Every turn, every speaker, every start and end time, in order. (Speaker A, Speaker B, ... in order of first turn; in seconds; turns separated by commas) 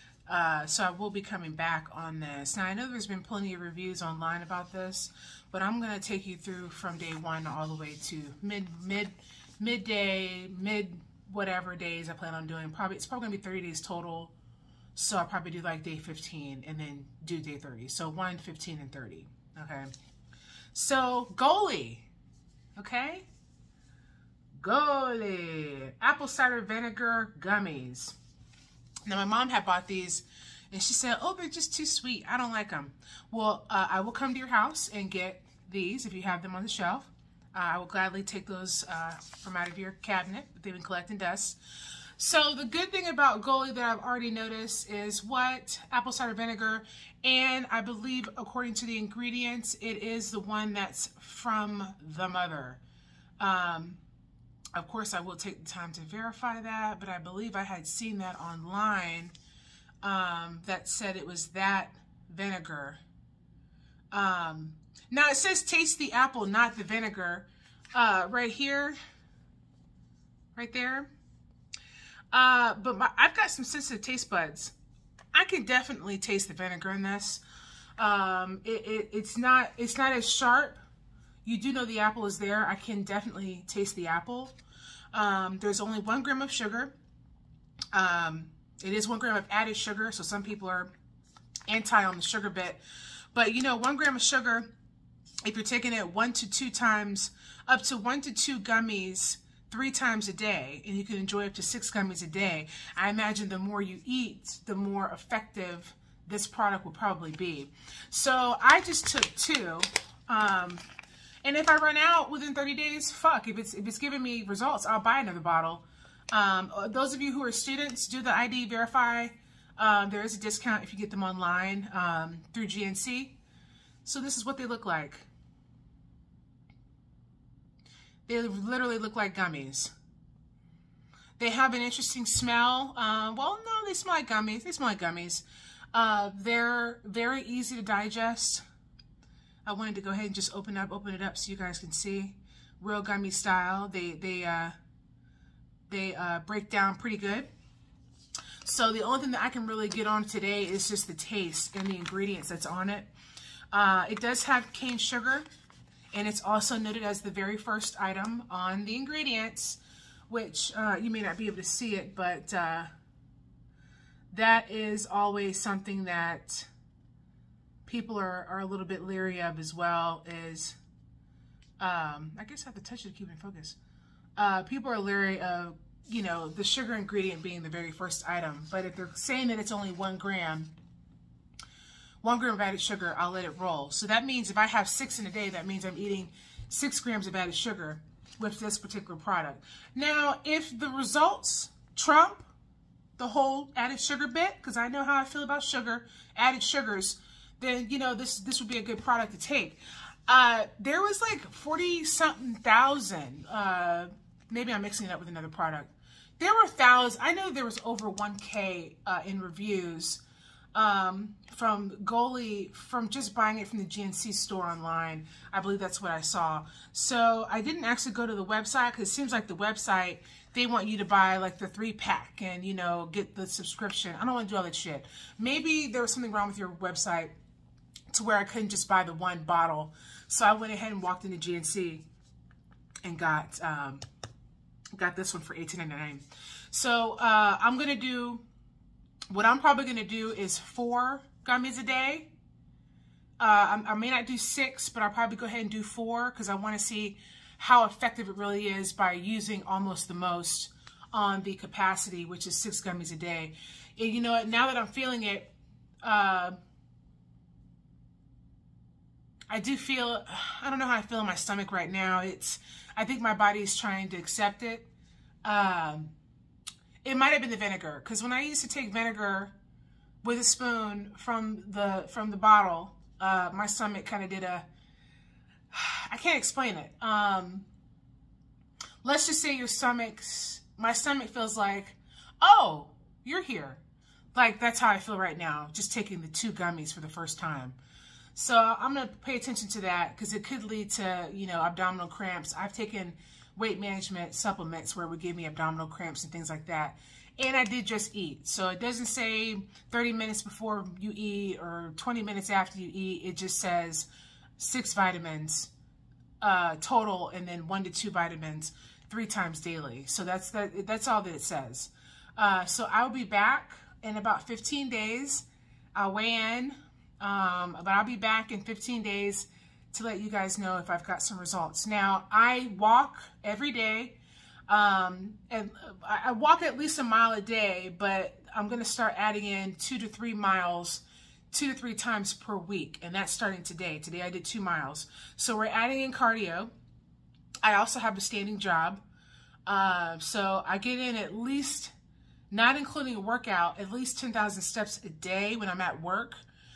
Speaker A: 0.3-14.3, Speaker A: 14.9-19.9, Speaker A: 20.7-22.1, Speaker A: 22.8-23.3, Speaker A: 24.6-28.2, Speaker A: 29.1-41.6, Speaker A: 42.2-52.8, Speaker A: 53.4-54.0, Speaker A: 54.8-59.3, Speaker A: 60.0-63.0, Speaker A: 64.1-69.0, Speaker A: 70.6-71.1, Speaker A: 72.3-74.7, Speaker A: 75.3-77.4, Speaker A: 78.0-80.8, Speaker A: 81.5-84.5, Speaker A: 85.1-86.9, Speaker A: 87.9-90.9, Speaker A: 91.7-92.8, Speaker A: 93.3-94.7, Speaker A: 95.5-110.8, Speaker A: 111.4-123.4, Speaker A: 124.0-125.3, Speaker A: 128.3-129.9, Speaker A: 131.4-138.6, Speaker A: 139.7-144.8, Speaker A: 145.9-147.5, Speaker A: 148.6-153.1, Speaker A: 153.7-155.5, Speaker A: 156.1-162.9, Speaker A: 164.3-166.7, Speaker A: 167.9-170.8, Speaker A: 171.8-173.8, Speaker A: 174.4-180.7, Speaker A: 182.2-192.5, Speaker A: 193.2-210.2, Speaker A: 210.8-227.3, Speaker A: 228.1-232.0, Speaker A: 233.0-234.0, Speaker A: 234.9-238.4, Speaker A: 239.3-242.3, Speaker A: 243.4-255.5, Speaker A: 256.0-256.6, Speaker A: 259.5-264.9, Speaker A: 265.4-266.1, Speaker A: 267.0-269.5, Speaker A: 270.2-274.7, Speaker A: 275.7-277.6, Speaker A: 279.0-283.8, Speaker A: 284.4-287.8, Speaker A: 288.4-305.7, Speaker A: 306.4-324.2, Speaker A: 324.7-336.7, Speaker A: 337.6-339.0, Speaker A: 339.7-341.9, Speaker A: 342.5-346.4